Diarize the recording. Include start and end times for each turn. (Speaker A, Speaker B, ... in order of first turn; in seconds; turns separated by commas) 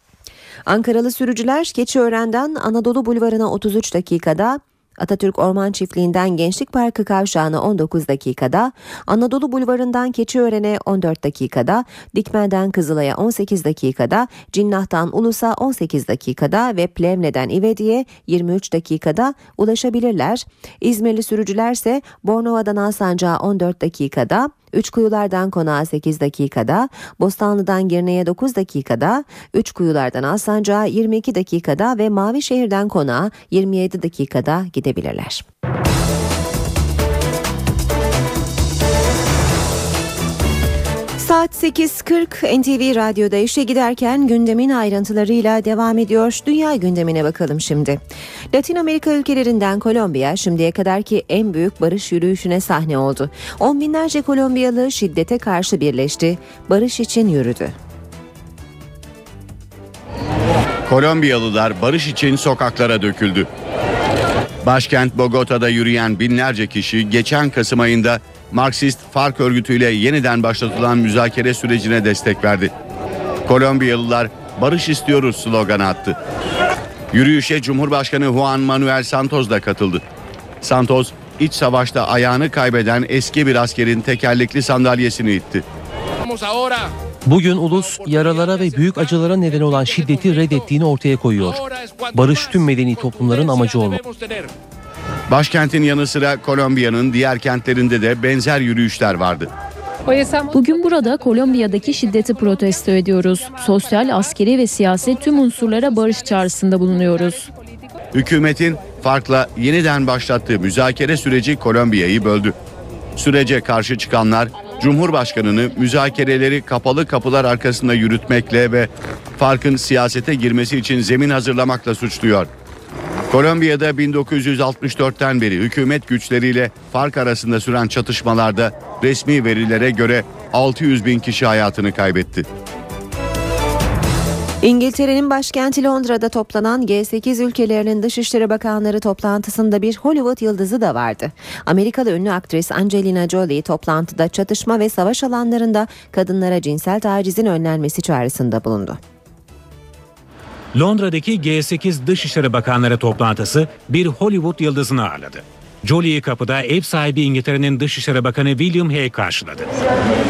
Speaker A: 0.7-35.5, Speaker A: 41.2-48.0, Speaker A: 48.5-57.8, Speaker B: 60.9-63.5, Speaker B: 64.7-72.7, Speaker B: 73.5-76.2, Speaker B: 77.1-80.0, Speaker B: 80.6-85.6, Speaker C: 87.3-94.0, Speaker B: 95.3-99.5, Speaker D: 100.5-107.5, Speaker B: 108.1-112.5, Speaker B: 113.2-122.5, Speaker B: 123.3-132.5, Speaker A: 134.6-149.0, Speaker E: 150.7-159.7